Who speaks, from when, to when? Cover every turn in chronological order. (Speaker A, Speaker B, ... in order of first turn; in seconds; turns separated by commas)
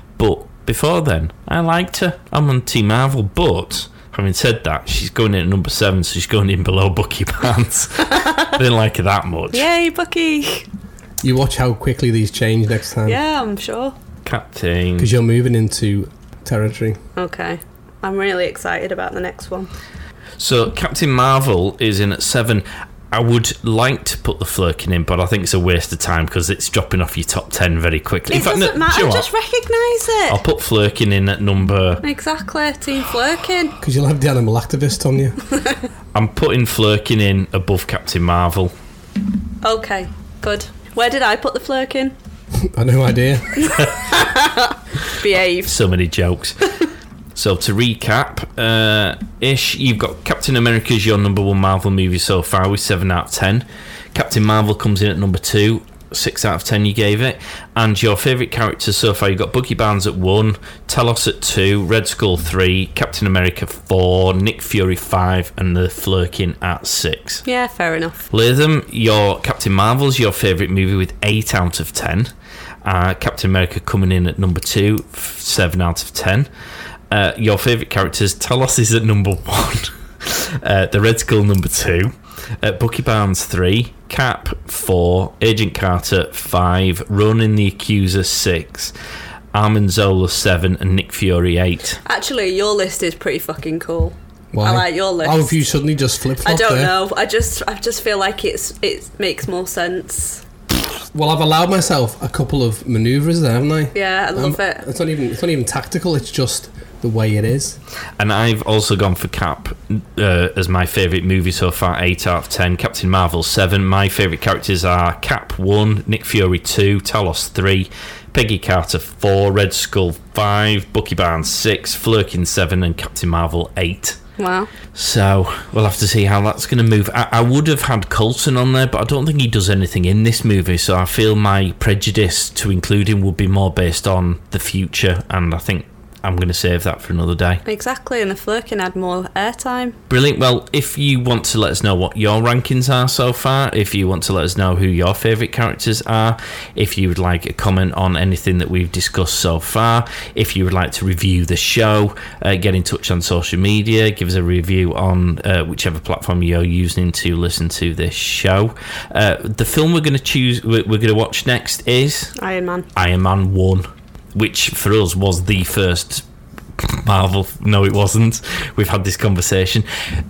Speaker A: 0.2-9.7, Speaker B: 9.5-10.7, Speaker C: 11.2-13.2, Speaker B: 13.1-13.9, Speaker A: 14.2-15.1, Speaker C: 15.0-17.0, Speaker B: 17.2-19.7, Speaker A: 20.4-29.3, Speaker B: 28.3-30.4, Speaker A: 30.3-32.0, Speaker B: 32.0-33.8, Speaker C: 33.8-35.4, Speaker A: 36.1-38.7, Speaker B: 39.6-42.1, Speaker C: 42.6-43.7, Speaker B: 43.6-45.7, Speaker A: 45.7-46.6, Speaker A: 47.4-67.4, Speaker B: 67.5-68.3, Speaker A: 68.3-72.3, Speaker A: 72.8-76.5, Speaker A: 77.1-88.9, Speaker A: 89.5-92.0, Speaker B: 92.0-95.6, Speaker C: 94.5-97.0, Speaker B: 96.4-100.4, Speaker C: 101.1-107.8, Speaker B: 103.9-104.8, Speaker A: 108.2-124.2, Speaker B: 124.4-124.7, Speaker A: 124.9-137.6, Speaker B: 137.7-140.0, Speaker A: 140.1-162.3, Speaker B: 162.4-162.9, Speaker A: 162.9-166.2, Speaker A: 166.8-169.9